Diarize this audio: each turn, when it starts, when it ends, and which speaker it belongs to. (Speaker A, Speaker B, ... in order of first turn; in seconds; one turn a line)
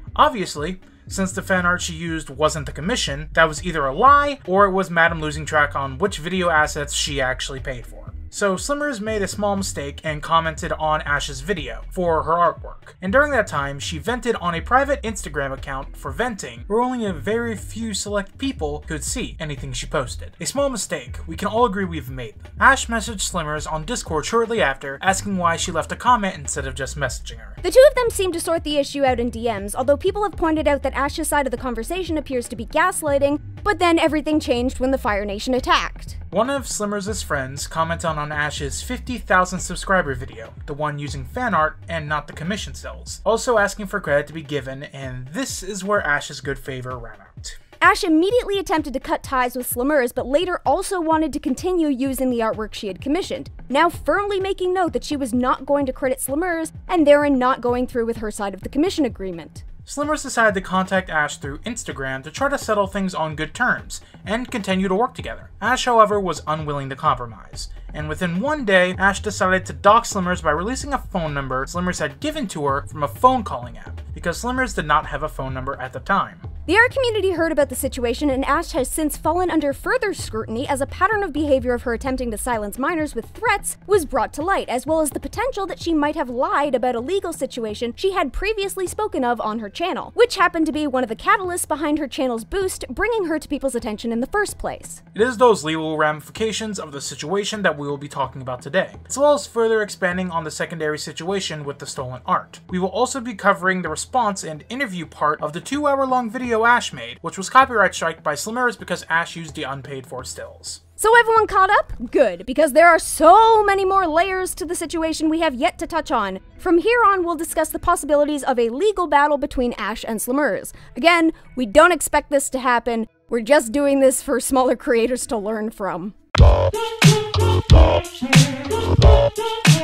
Speaker A: 0.1-27.6
Speaker B: 27.6-36.2
Speaker A: 36.3-47.6
Speaker B: 47.8-59.6
Speaker A: 59.9-76.5
Speaker B: 76.7-95.0
Speaker A: 95.1-110.8
Speaker B: 111.0-126.2